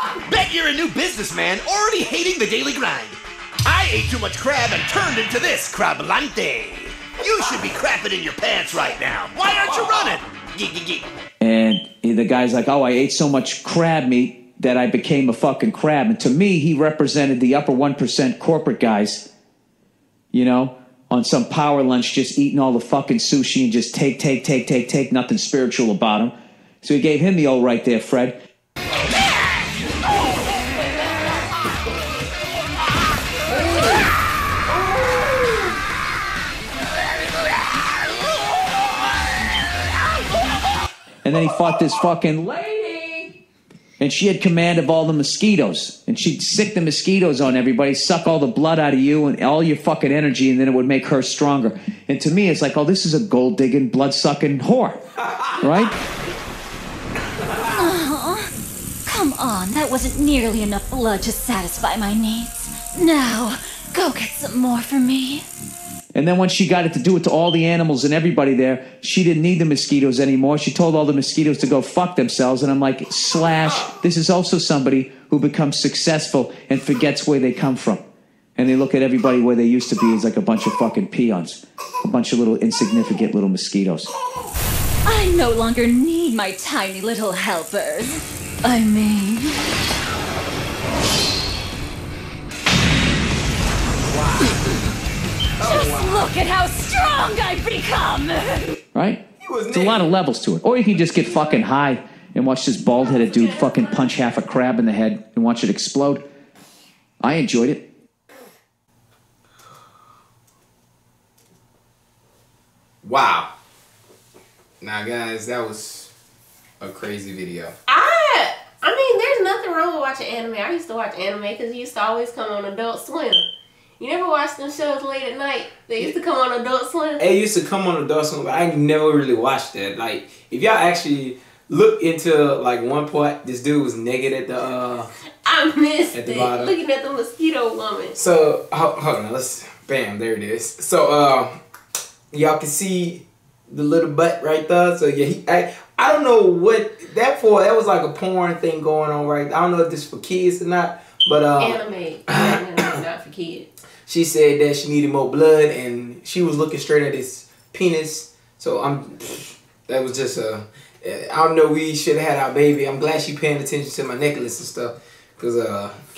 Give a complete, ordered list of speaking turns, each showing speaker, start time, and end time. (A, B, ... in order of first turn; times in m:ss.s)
0:00.2-0:11.1 A
0:11.4-0:19.2 B
0:20.3-0:28.3 B
0:41.2-0:43.3 B
0:44.0-0:55.0 B
0:55.5-0:55.9 B
0:57.6-0:58.5 C
0:59.0-1:05.4 C
1:06.1-1:18.0 B
1:18.6-1:24.1 B
1:25.0-1:29.6 C
1:35.6-1:36.2 D
1:35.6-1:38.7 C
1:38.9-1:46.2 B
1:39.4-1:40.2 D
1:43.0-1:44.2 E
1:47.2-1:47.8 B
1:53.0-1:53.5 D
1:54.8-1:56.1 D
1:56.8-1:57.7 D
1:57.9-2:03.4 E
2:04.0-2:07.3 E
2:07.2-2:15.1 D
2:15.4-2:18.2 E
2:16.1-2:16.7 D
2:18.2-2:21.5 D
2:22.3-2:32.6 D
2:31.6-2:33.7 E
2:34.1-2:45.9 D